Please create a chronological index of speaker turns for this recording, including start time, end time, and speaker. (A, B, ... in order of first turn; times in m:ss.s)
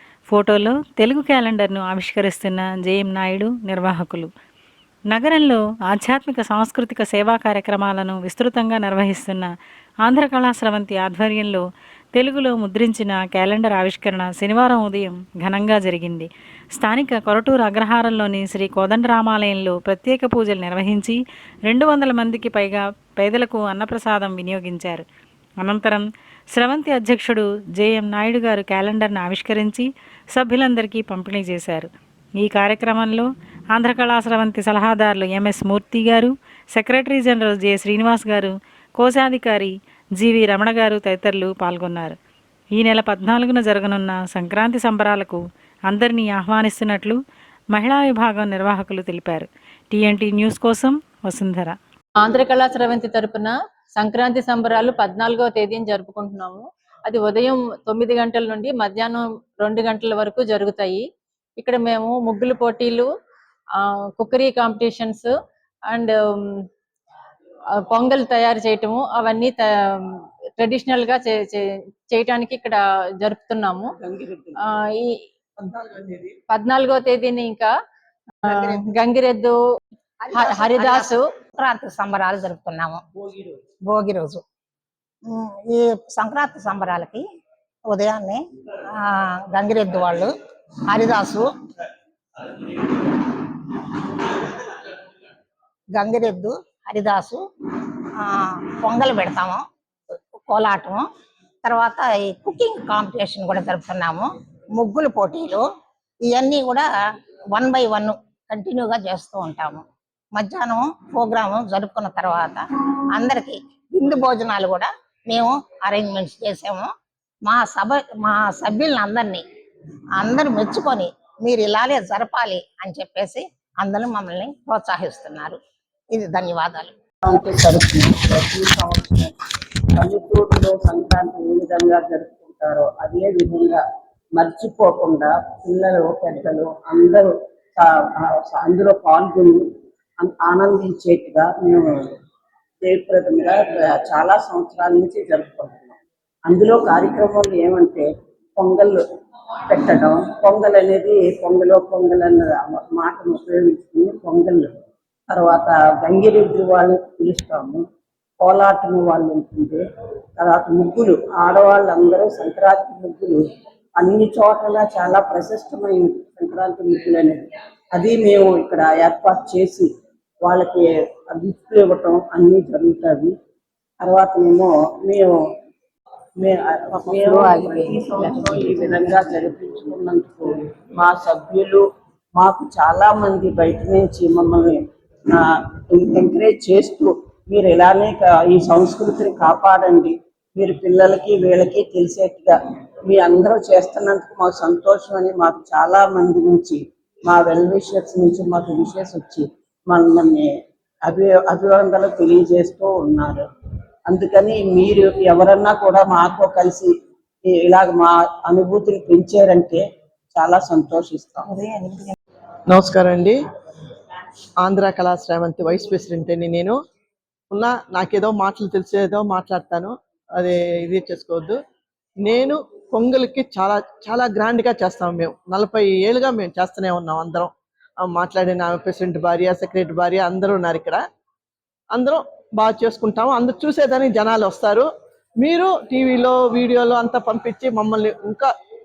0:00.3-0:04.3 A
0:05.1-0:09.5 A
0:10.0-0:25.0 A
0:25.6-0:42.2 A
0:42.8-0:47.2 A
0:47.7-0:51.8 A
0:52.2-1:01.0 B
1:01.6-1:03.1 B
1:03.8-1:05.3 B
1:05.9-1:06.5 B
1:07.9-1:13.9 B
1:14.0-1:14.6 C
1:14.9-1:15.2 B
1:15.6-1:16.3 D
1:16.6-1:17.7 B
1:18.5-1:18.9 E
1:18.5-1:19.6 B
1:20.2-1:23.0 E
1:20.3-1:21.3 B
1:23.9-1:24.4 E
1:25.3-1:27.2 E
1:27.9-1:30.3 E
1:30.9-1:31.5 E
1:32.4-1:34.8 E
1:36.0-1:37.4 E
1:38.2-1:39.6 E
1:40.4-1:41.1 E
1:41.6-1:45.6 E
1:46.3-1:46.9 E
1:47.6-1:49.8 E
1:50.3-1:52.6 E
1:53.2-1:56.9 E
1:57.5-1:59.4 E
2:00.2-2:05.6 E
2:06.1-2:06.9 E
2:07.2-2:09.3 C
2:09.9-2:13.8 C
2:14.4-2:19.6 C
2:20.2-2:22.2 C
2:22.8-2:29.0 C
2:29.6-2:34.7 C
2:35.3-2:37.8 C
2:38.4-2:39.8 C
2:40.4-2:43.4 C
2:43.9-2:49.9 C
2:50.4-2:53.3 C
2:54.0-2:55.4 C
2:56.4-3:01.8 C
3:02.3-3:20.5 C
3:21.0-3:23.5 C
3:24.1-3:26.9 C
3:27.5-3:31.5 C
3:32.7-3:33.4 D
3:34.6-3:36.8 D
3:37.5-3:41.6 D
3:42.2-3:51.0 D
3:51.9-3:54.9 D
3:55.4-3:58.5 D